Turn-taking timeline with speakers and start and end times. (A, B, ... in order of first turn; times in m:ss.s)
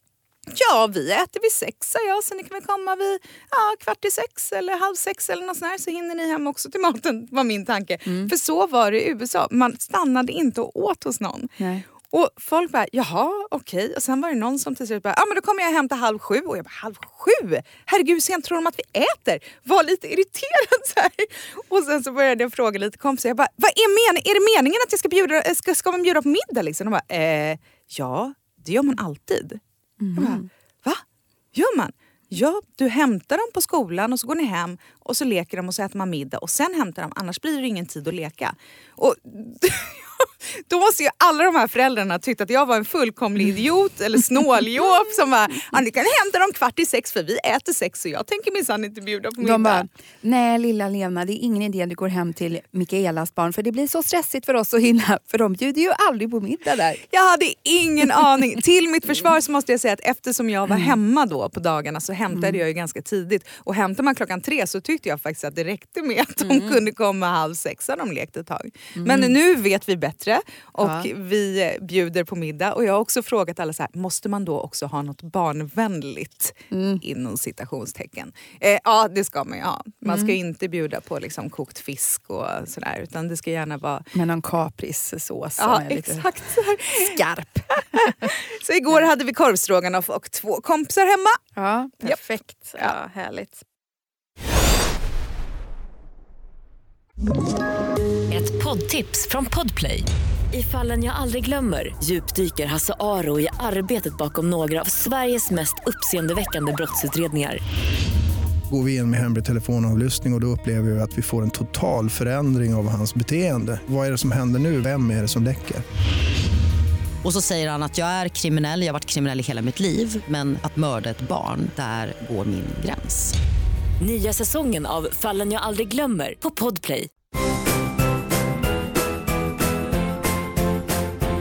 0:00.5-0:11.5 A
0:08.0-0:08.3 B
0:11.6-0:11.8 B
0:12.1-0:29.6 A
0:30.0-0:30.5 B
0:30.2-0:31.0 A
0:31.5-0:49.9 A
0:49.4-0:57.0 B
0:57.1-1:24.1 A
1:00.7-1:01.0 B
1:02.3-1:02.6 B
1:06.4-1:06.8 B
1:09.0-1:09.4 B
1:10.8-1:11.1 B
1:16.7-1:17.0 B
1:20.0-1:20.4 B
1:24.1-1:26.3 B
1:25.6-1:27.1 A
1:26.9-1:28.3 B
1:27.7-1:31.4 A
1:31.6-1:33.6 B
1:38.3-1:47.6 C
1:48.7-1:55.8 D
1:57.2-2:03.4 E
2:04.0-2:07.1 C